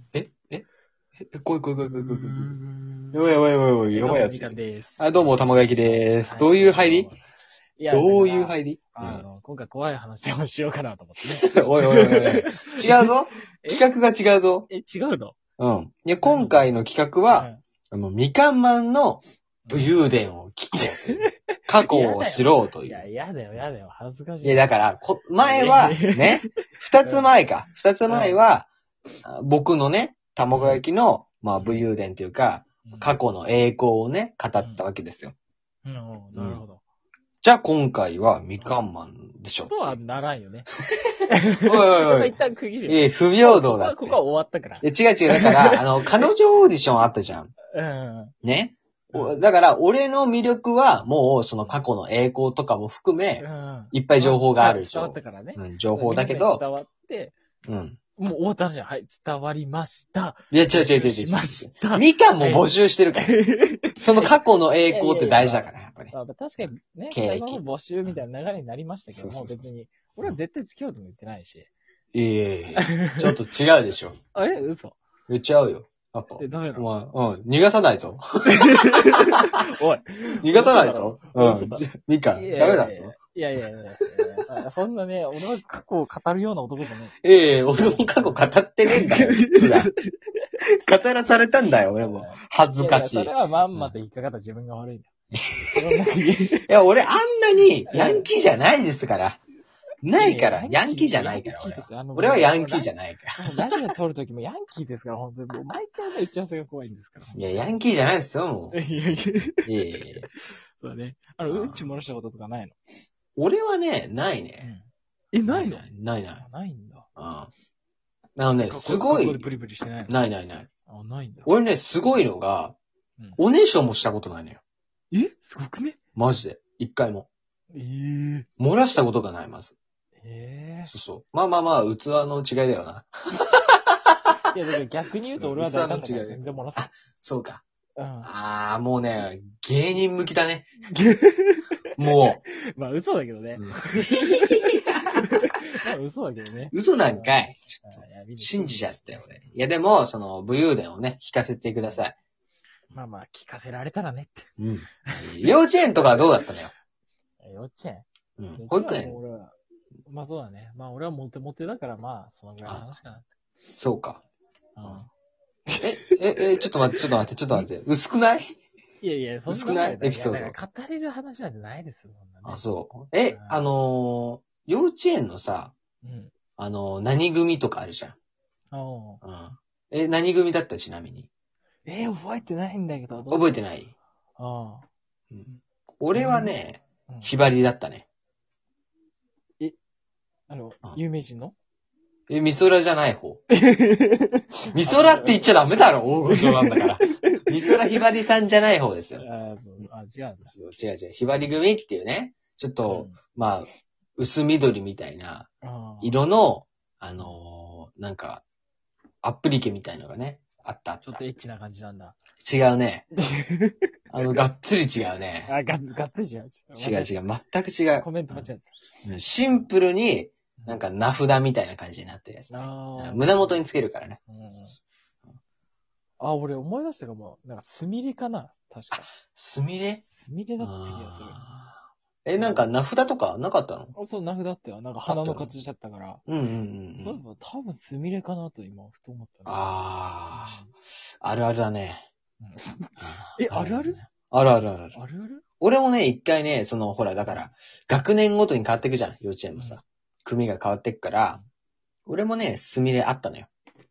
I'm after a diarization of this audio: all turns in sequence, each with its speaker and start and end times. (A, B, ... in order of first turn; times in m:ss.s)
0:00.1-0:00.6 A
0:01.3-0:02.6 A
0:01.8-0:03.2 B
0:03.1-0:07.1 A
0:03.9-0:07.2 B
0:07.8-0:13.1 B
0:07.9-0:09.2 A
0:11.5-0:14.7 A
0:14.7-0:15.4 B
0:15.6-0:23.0 A
0:16.2-0:16.8 B
0:17.3-0:17.6 B
0:19.6-0:20.0 B
0:20.8-0:24.8 B
0:24.4-0:28.7 A
0:25.4-0:26.5 B
0:27.0-0:27.3 B
0:28.1-0:28.4 B
0:29.2-0:35.3 A
0:30.5-0:30.8 B
0:31.6-0:31.8 B
0:32.8-0:33.2 B
0:34.6-0:34.8 B
0:35.8-0:36.8 B
0:36.3-0:36.6 A
0:37.4-0:40.0 A
0:39.7-0:40.7 B
0:41.3-0:46.2 B
0:41.6-0:42.3 A
0:42.9-0:44.2 A
0:44.8-0:47.5 A
0:47.7-0:48.3 B
0:48.4-0:56.6 A
0:49.1-0:49.4 B
0:51.6-0:51.8 B
0:53.4-0:57.3 B
0:57.6-0:58.0 A
0:58.2-1:02.6 B
1:00.5-1:03.3 A
1:03.2-1:04.3 B
1:04.0-1:08.2 A
1:04.9-1:11.7 B
1:09.1-1:09.7 A
1:12.1-1:14.2 A
1:12.8-1:13.3 B
1:14.3-1:15.0 B
1:15.3-1:19.0 A
1:16.4-1:16.9 B
1:18.5-1:27.1 B
1:20.4-1:23.1 A
1:27.2-1:29.9 A
1:27.7-1:30.5 B
1:30.8-1:33.9 A
1:32.0-1:35.1 B
1:35.3-1:35.8 A
1:35.7-1:36.6 B
1:36.6-1:39.4 A
1:37.9-1:38.3 B
1:40.0-1:43.6 A
1:40.2-1:47.6 B
1:47.3-1:48.8 A
1:48.7-1:52.8 B
1:49.6-1:50.3 A
1:51.5-1:51.9 A
1:53.4-1:54.7 A
1:54.6-1:57.1 B
1:55.4-1:56.4 A
1:57.2-1:57.5 A
1:58.4-1:59.5 A
1:58.6-2:00.2 B
2:00.1-2:00.7 A
2:00.9-2:01.5 B
2:01.4-2:02.8 A
2:03.4-2:04.6 A
2:05.1-2:06.0 B
2:06.2-2:07.3 A
2:07.7-2:08.5 B
2:08.6-2:09.7 A
2:10.2-2:10.9 B
2:10.9-2:13.8 A
2:14.5-2:16.9 B
2:15.4-2:17.6 A
2:18.0-2:18.3 B
2:18.2-2:20.7 A
2:20.9-2:21.7 B
2:22.0-2:22.4 A
2:22.5-2:29.5 B
2:23.6-2:25.2 A
2:26.7-2:32.1 A
2:32.9-2:34.5 B
2:34.6-2:36.7 A
2:35.9-2:36.4 B
2:37.4-2:39.5 B
2:38.4-2:39.2 A
2:40.1-2:43.2 B
2:43.8-2:44.2 A
2:44.8-2:45.1 B
2:45.7-2:46.4 B
2:45.8-2:48.5 A
2:46.9-2:47.7 B
2:49.0-2:52.7 B
2:49.5-2:50.6 A
2:52.4-2:55.7 A
2:53.3-2:53.6 B
2:56.0-2:56.3 B
2:56.6-2:58.2 A
2:58.7-2:59.2 B
2:59.2-3:01.3 A
3:01.8-3:03.6 B
3:03.3-3:03.9 A
3:04.4-3:04.8 B
3:06.0-3:08.1 A
3:06.1-3:06.5 B
3:07.1-3:07.4 B
3:10.5-3:11.5 B
3:12.3-3:13.4 A
3:13.5-3:18.0 B
3:14.7-3:19.2 A
3:19.2-3:20.5 B
3:20.4-3:25.5 A
3:22.8-3:23.2 B
3:25.6-3:26.2 B
3:26.0-3:28.4 A
3:29.2-3:31.2 A
3:31.0-3:32.2 B
3:32.4-3:33.1 A
3:33.2-3:33.8 B
3:34.1-3:35.5 A
3:35.4-3:37.1 B
3:36.8-3:38.5 A
3:38.0-3:38.7 B
3:39.0-3:44.2 A
3:40.6-3:40.8 B
3:42.5-3:43.6 B
3:44.3-3:44.8 B
3:46.2-3:49.1 B
3:49.1-3:50.0 A
3:50.0-3:51.4 B
3:50.6-3:53.9 A
3:52.4-3:52.6 B
3:53.9-3:56.2 B
3:55.0-3:55.5 A
3:56.3-3:57.2 A
3:56.9-3:59.7 B
3:59.4-4:00.6 A
4:00.3-4:00.7 B
4:01.2-4:02.0 A
4:02.4-4:04.0 B
4:03.0-4:05.0 A
4:04.9-4:05.4 B
4:05.6-4:11.4 A
4:12.1-4:13.5 A